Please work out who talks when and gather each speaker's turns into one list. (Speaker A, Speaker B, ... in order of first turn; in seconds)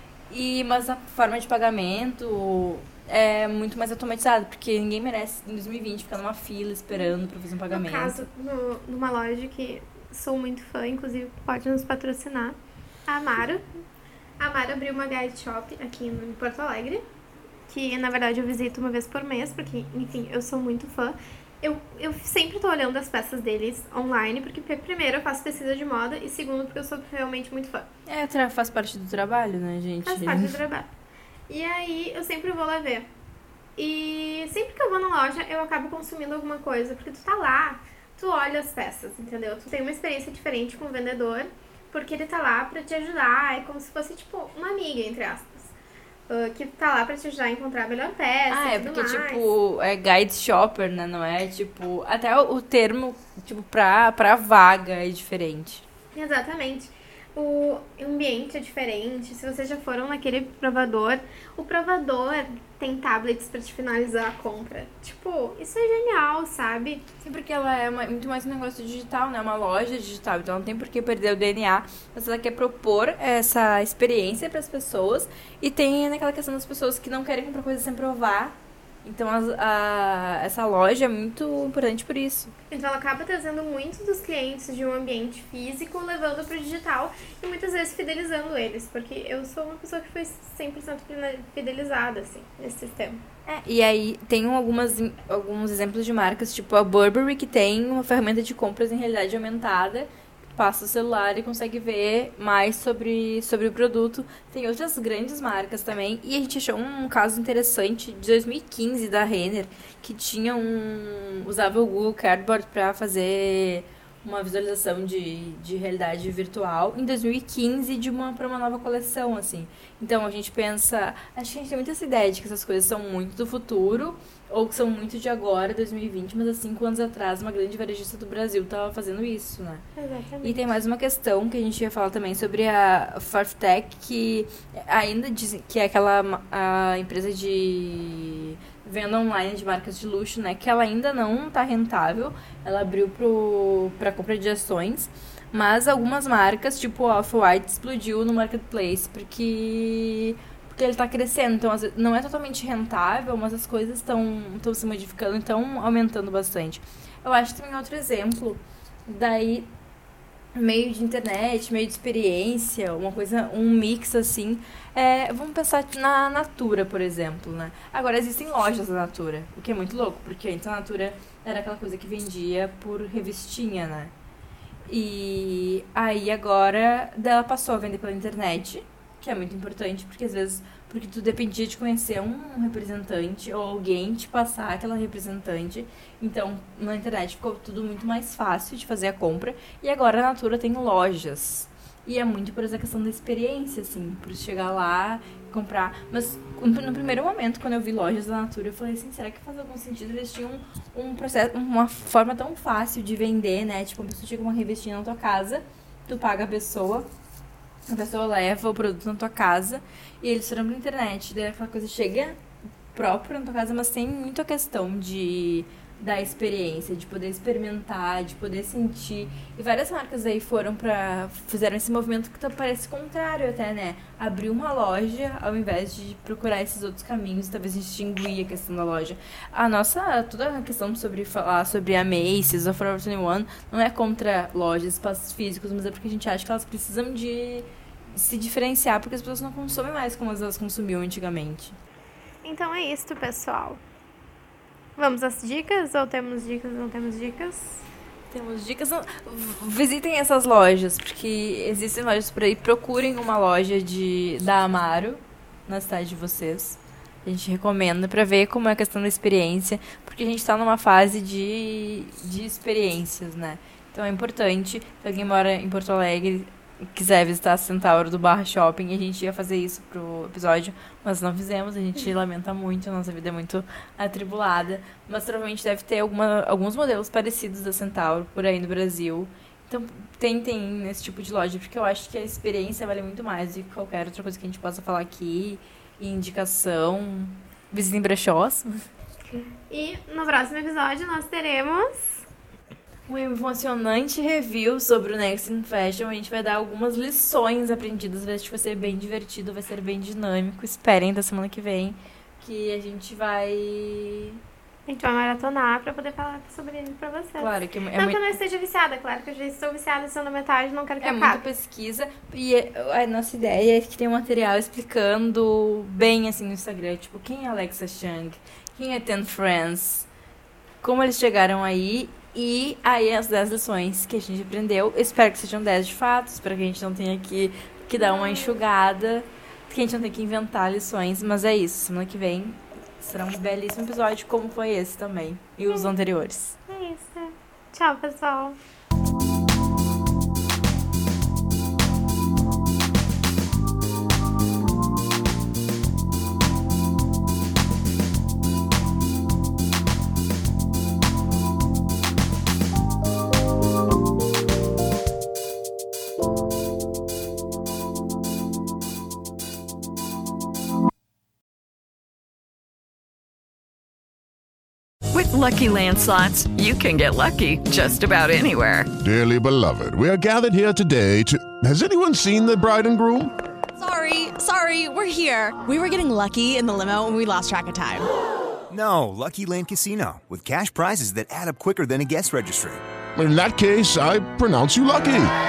Speaker A: 0.3-8.2, 28.1-30.6, 48.5-55.9, 67.2-82.5, 93.5-129.9, 130.4-159.7, 160.6-174.1, 174.9-207.1, 207.9-212.4, 212.9-241.8, 248.3-288.8, 293.1-304.4, 307.4-308.3, 311.0-320.1, 320.8-336.6
Speaker B: 7.7-13.6, 14.4-17.0, 17.7-27.9, 30.1-30.9, 31.5-33.1, 33.8-45.7, 46.3-49.5, 56.1-67.0, 82.7-93.2, 130.0-130.7, 242.4-243.8, 245.0-247.8, 289.3-292.3, 304.9-311.5, 328.0-328.6, 336.7-338.6
Speaker C: 365.1-368.9
Speaker D: 369.0-373.4, 383.1-385.3
Speaker E: 373.8-378.1
Speaker F: 378.7-382.8